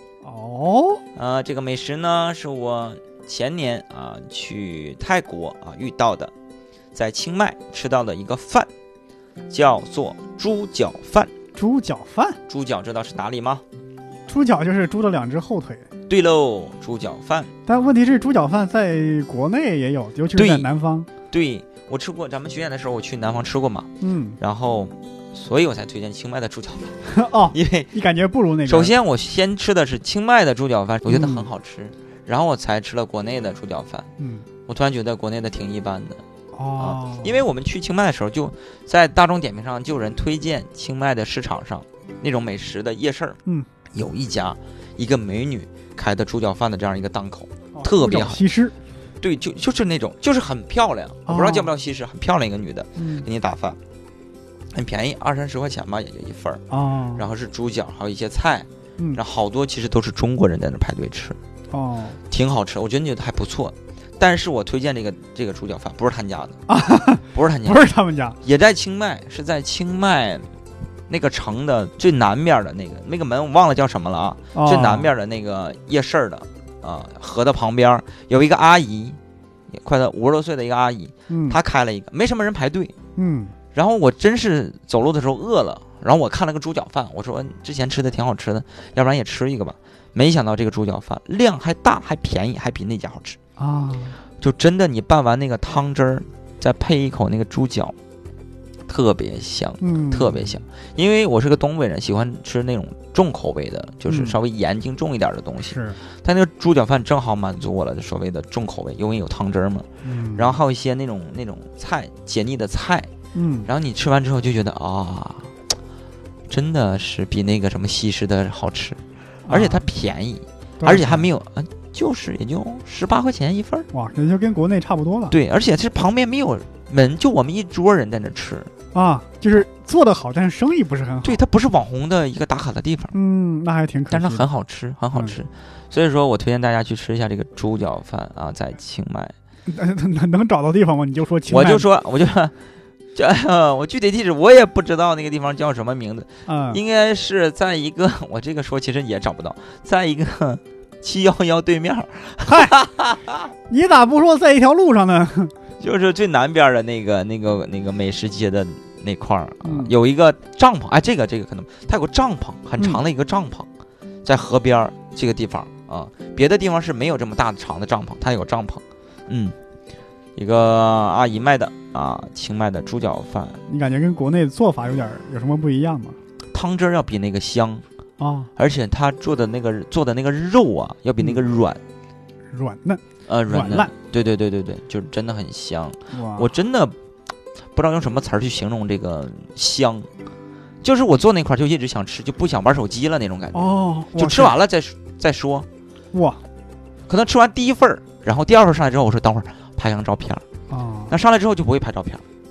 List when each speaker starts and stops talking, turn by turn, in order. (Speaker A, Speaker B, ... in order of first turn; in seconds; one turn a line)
Speaker A: 0.2-1.0
Speaker B: 1.1-6.3
Speaker B: 6.9-8.7
Speaker B: 9.5-11.3
Speaker A: 11.5-12.4
Speaker B: 12.5-13.6
Speaker A: 14.3-15.9
Speaker B: 16.1-17.5
Speaker A: 17.7-21.1
Speaker B: 20.3-20.7
Speaker B: 21.3-23.9
Speaker A: 24.0-24.4
Speaker B: 24.4-27.9
Speaker A: 27.1-28.9
Speaker B: 28.6-34.1
Speaker A: 31.1-31.5
Speaker A: 34.2-34.5
Speaker B: 34.7-36.2
Speaker A: 36.5-37.4
Speaker B: 36.8-43.4
Speaker A: 43.4-43.7
Speaker B: 43.9-48.4
Speaker A: 47.7-48.8
Speaker B: 49.2-53.8
Speaker A: 51.2-51.7
Speaker A: 53.0-53.3
Speaker B: 54.7-56.6
Speaker A: 56.7-57.2
Speaker B: 57.1-61.4
Speaker A: 61.7-62.2
Speaker B: 62.3-66.6
Speaker A: 66.7-68.4
Speaker B: 67.3-67.8
Speaker B: 68.4-70.5
Speaker B: 71.1-79.2
Speaker A: 74.5-75.1
Speaker B: 79.7-82.9
Speaker A: 81.3-81.6
Speaker A: 83.2-83.5
Speaker B: 83.7-93.4
Speaker A: 93.6-94.2
Speaker B: 94.4-97.9
Speaker B: 98.9-113.1
Speaker A: 99.8-100.6
Speaker A: 104.1-104.4
Speaker A: 105.7-106.0
Speaker A: 110.0-110.6
Speaker A: 113.3-113.7
Speaker B: 113.7-115.5
Speaker B: 116.5-123.9
Speaker A: 119.5-119.8
Speaker A: 120.8-121.3
Speaker A: 123.9-125.3
Speaker B: 125.3-128.7
Speaker A: 128.9-131.4
Speaker B: 131.2-133.1
Speaker A: 133.1-134.4
Speaker B: 134.1-139.3
Speaker A: 139.7-141.8
Speaker B: 141.5-142.5
Speaker B: 143.1-153.5
Speaker A: 146.4-146.8
Speaker A: 152.5-152.8
Speaker A: 153.7-155.5
Speaker B: 155.8-163.7
Speaker A: 159.6-159.9
Speaker B: 164.2-169.6
Speaker B: 170.3-173.6
Speaker A: 173.7-176.2
Speaker B: 176.5-177.8
Speaker A: 178.2-178.5
Speaker B: 178.6-181.8
Speaker A: 182.5-183.9
Speaker B: 183.3-186.9
Speaker A: 186.1-186.5
Speaker B: 187.7-190.1
Speaker B: 190.8-195.7
Speaker A: 193.5-194.6
Speaker A: 196.1-196.4
Speaker B: 197.1-200.4
Speaker A: 200.7-201.1
Speaker B: 201.1-202.2